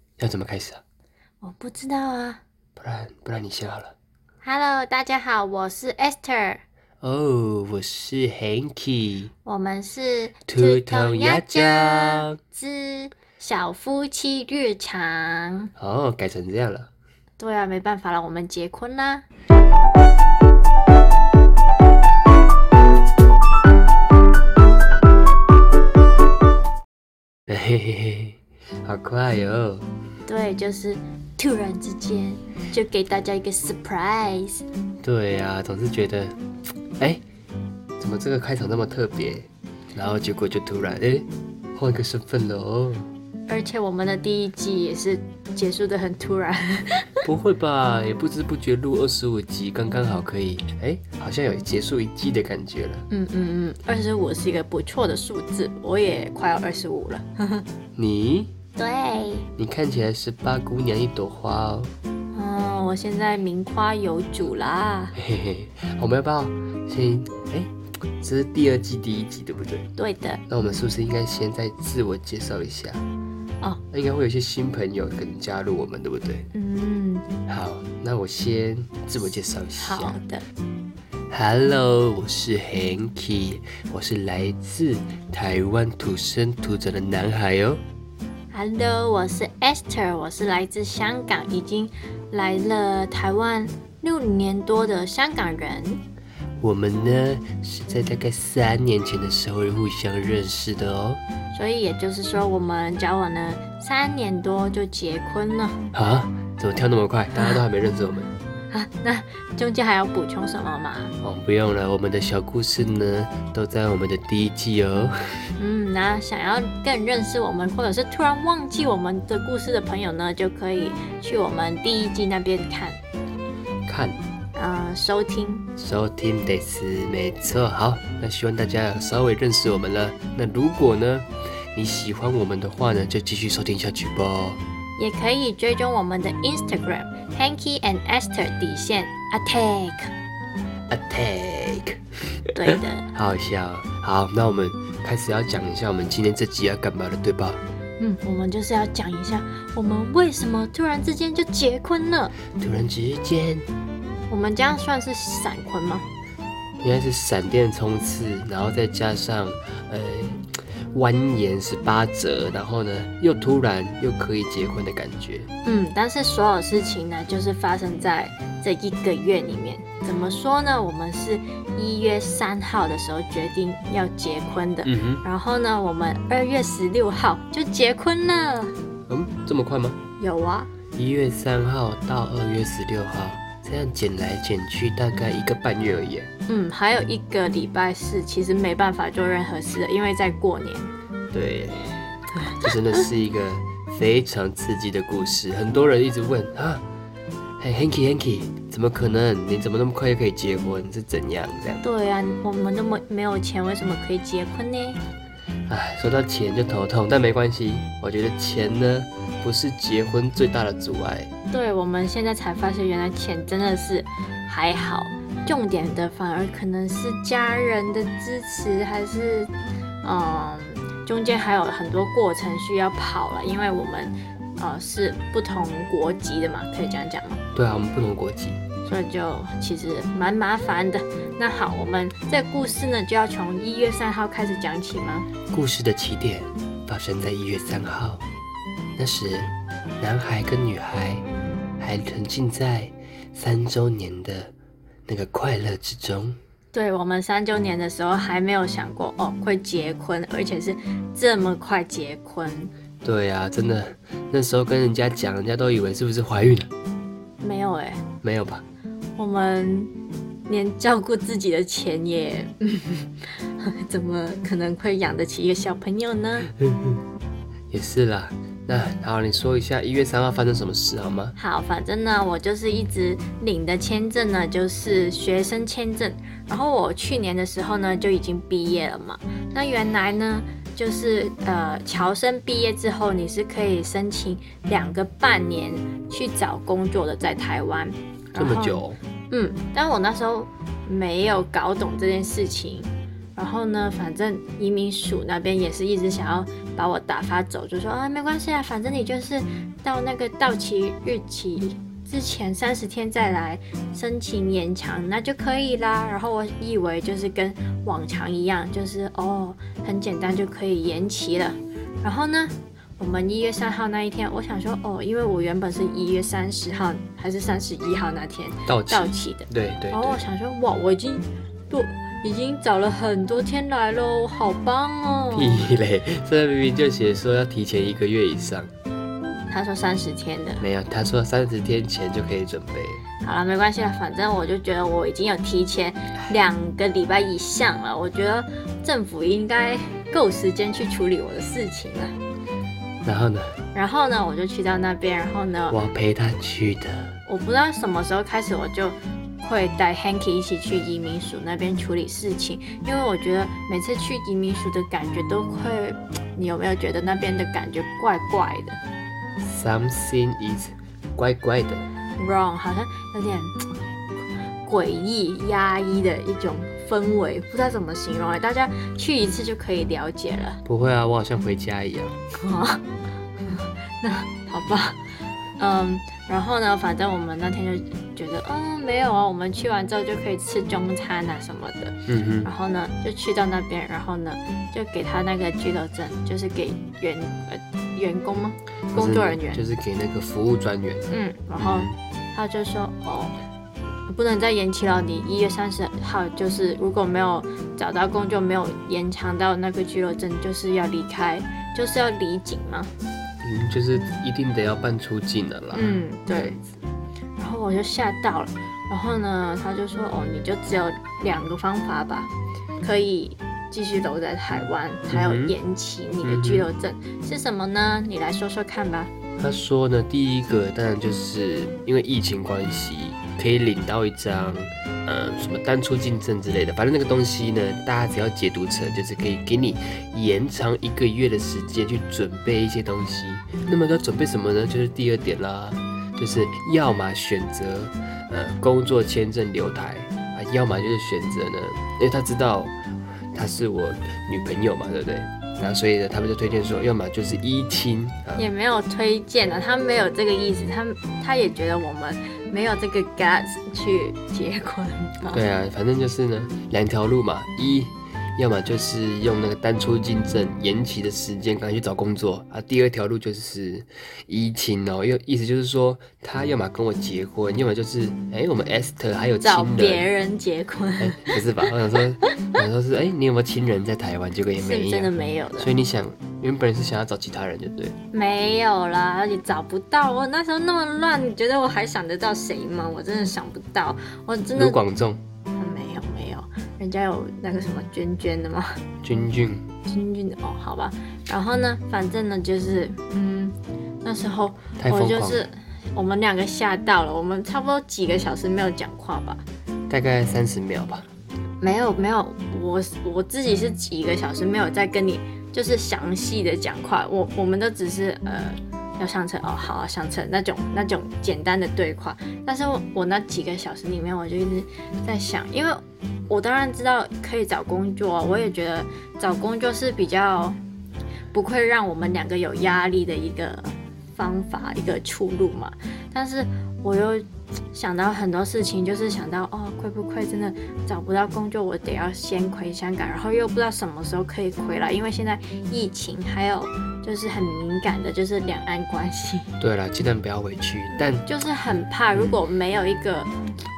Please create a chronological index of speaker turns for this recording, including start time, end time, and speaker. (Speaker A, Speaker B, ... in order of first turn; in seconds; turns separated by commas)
Speaker A: 0.2-0.8, Speaker B: 1.4-2.4, Speaker A: 2.8-4.0, Speaker B: 4.4-6.6, Speaker A: 7.0-9.3, Speaker B: 9.4-15.7, Speaker A: 10.5-12.4, Speaker A: 15.8-16.9, Speaker B: 17.4-19.2, Speaker A: 27.5-29.9, Speaker B: 30.3-34.6, Speaker A: 35.0-36.4, Speaker A: 38.0-43.1, Speaker B: 43.5-47.2, Speaker A: 47.2-53.1, Speaker B: 53.1-57.7, Speaker A: 58.0-58.5, Speaker B: 58.8-59.5, Speaker A: 59.6-61.9, Speaker B: 62.3-65.1, Speaker A: 65.2-69.9, Speaker B: 70.0-70.4, Speaker A: 70.5-73.0, Speaker A: 73.9-76.5, Speaker B: 76.5-77.3, Speaker A: 77.5-80.2, Speaker B: 79.8-80.5, Speaker A: 81.3-87.8, Speaker B: 88.5-96.0, Speaker A: 96.6-101.2, Speaker B: 101.5-105.8, Speaker A: 105.9-108.3, Speaker B: 108.7-111.1, Speaker A: 111.2-115.4, Speaker B: 115.6-123.0, Speaker A: 123.9-124.2, Speaker B: 124.5-125.7, Speaker A: 125.8-134.6, Speaker B: 135.0-140.1, Speaker A: 140.9-142.0, Speaker B: 142.6-143.1, Speaker A: 142.7-147.6, Speaker B: 148.0-152.4, Speaker A: 152.5-153.7, Speaker B: 154.3-156.1, Speaker A: 156.8-165.5, Speaker B: 165.6-178.8, Speaker A: 174.8-175.2, Speaker A: 179.1-180.0, Speaker B: 180.2-180.7, Speaker A: 180.9-186.3, Speaker B: 186.5-190.9, Speaker A: 191.3-196.8, Speaker A: 197.6-201.8, Speaker B: 201.8-205.0, Speaker A: 205.7-211.3, Speaker B: 211.5-219.5, Speaker B: 220.0-227.4, Speaker A: 227.5-228.6, Speaker B: 228.8-235.3, Speaker A: 235.5-238.2, Speaker A: 239.0-241.2, Speaker A: 241.8-244.5, Speaker A: 245.1-246.4, Speaker B: 246.7-252.7, Speaker A: 253.0-256.7, Speaker B: 257.4-258.0, Speaker A: 258.2-258.6, Speaker B: 259.2-259.9, Speaker B: 260.5-266.5, Speaker A: 266.6-267.0, Speaker A: 267.7-271.4, Speaker B: 271.4-325.6, Speaker A: 288.4-289.0, Speaker A: 318.7-320.2, Speaker A: 325.3-328.7, Speaker B: 329.5-330.6, Speaker A: 330.6-333.0, Speaker B: 333.2-342.1, Speaker A: 343.0-343.6, Speaker B: 343.7-345.8, Speaker A: 345.7-347.2, Speaker B: 347.3-358.8, Speaker A: 359.4-361.9, Speaker B: 362.2-363.6, Speaker B: 364.6-370.6, Speaker A: 370.6-372.2, Speaker B: 372.3-372.9, Speaker B: 373.4-389.6, Speaker A: 382.1-382.5, Speaker A: 388.9-392.0, Speaker B: 391.1-393.3, Speaker B: 394.1-402.9, Speaker A: 403.4-406.7, Speaker B: 405.7-406.6, Speaker B: 407.4-419.1, Speaker A: 415.1-415.5, Speaker A: 416.2-416.7, Speaker A: 419.4-442.7, Speaker A: 443.3-448.4, Speaker B: 448.4-455.4, Speaker A: 455.3-470.1, Speaker B: 469.4-471.7, Speaker A: 471.0-477.9, Speaker B: 474.6-475.7, Speaker B: 478.1-484.8, Speaker A: 484.6-485.2, Speaker B: 485.6-488.8, Speaker A: 489.0-489.6, Speaker B: 489.9-499.4, Speaker A: 494.8-495.4, Speaker A: 499.9-501.1, Speaker B: 501.6-520.6, Speaker B: 521.3-539.5, Speaker A: 539.6-541.3, Speaker B: 541.0-543.3